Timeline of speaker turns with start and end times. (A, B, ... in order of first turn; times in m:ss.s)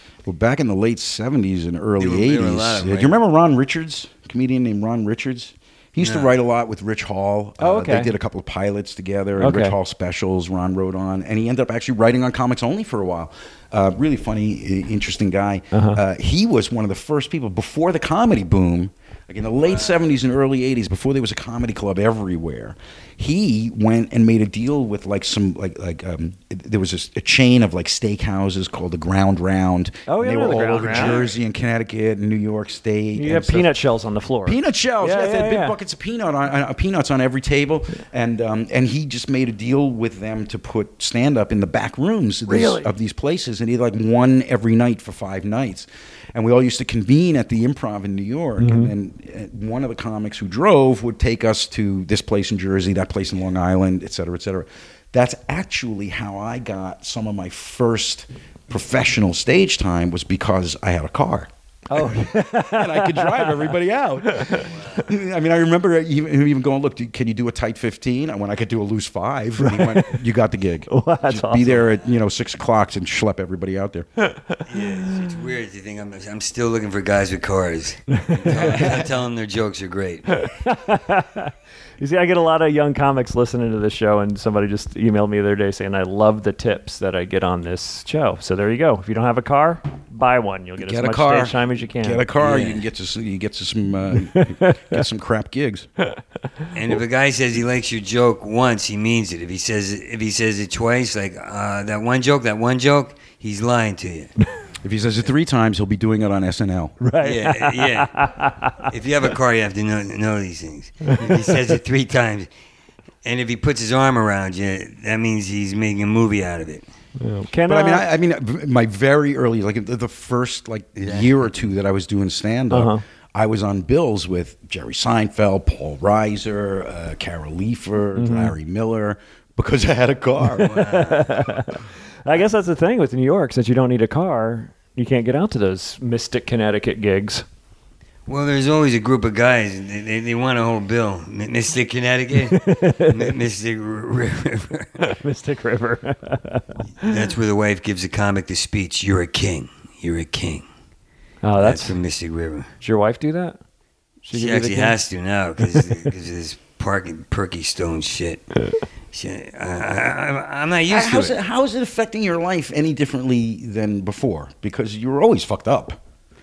0:00.2-0:33.8 A
0:02.0-0:03.2 B
0:06.0-0:06.3 B
0:07.6-0:08.1 C
0:09.4-0:09.8 C
0:15.7-0:16.0 C
0:19.7-0:20.0 B
0:30.1-0:31.2 C
0:33.2-0:35.8 C
0:34.4-1:14.0 A
0:42.5-0:42.9 C
0:48.6-0:48.9 C
1:01.9-1:03.7 C
1:04.3-1:04.6 C
1:04.7-1:05.0 B
1:09.6-1:10.2 C
1:10.9-1:11.8 C
1:14.7-1:20.4 B
1:18.1-1:18.9 C
1:18.5-1:19.1 A
1:20.4-1:32.3 C
1:30.8-1:35.9 A
1:32.4-1:32.8 B
1:34.3-1:35.0 C
1:36.7-1:44.3 B
1:44.8-1:47.0 A
1:47.0-1:48.9 C
1:47.2-1:48.3 B
1:48.8-1:52.5 B
1:51.0-1:51.3 C
1:53.2-1:56.8 B
1:57.2-1:58.1 C
1:57.6-2:10.9 A
2:01.0-2:01.7 B
2:02.7-2:03.0 C
2:08.1-2:08.5 C
2:10.6-2:17.4 C
2:10.6-2:11.4 B
2:18.3-2:25.1 B
2:22.5-2:23.3 C
2:25.0-2:27.1 C
2:27.0-2:30.6 B
2:31.4-2:32.0 C
2:31.6-2:32.7 B
2:32.8-2:33.6 C
2:34.2-2:34.9 C
2:34.3-2:38.4 B
2:39.1-2:41.4 B
2:40.9-2:46.0 A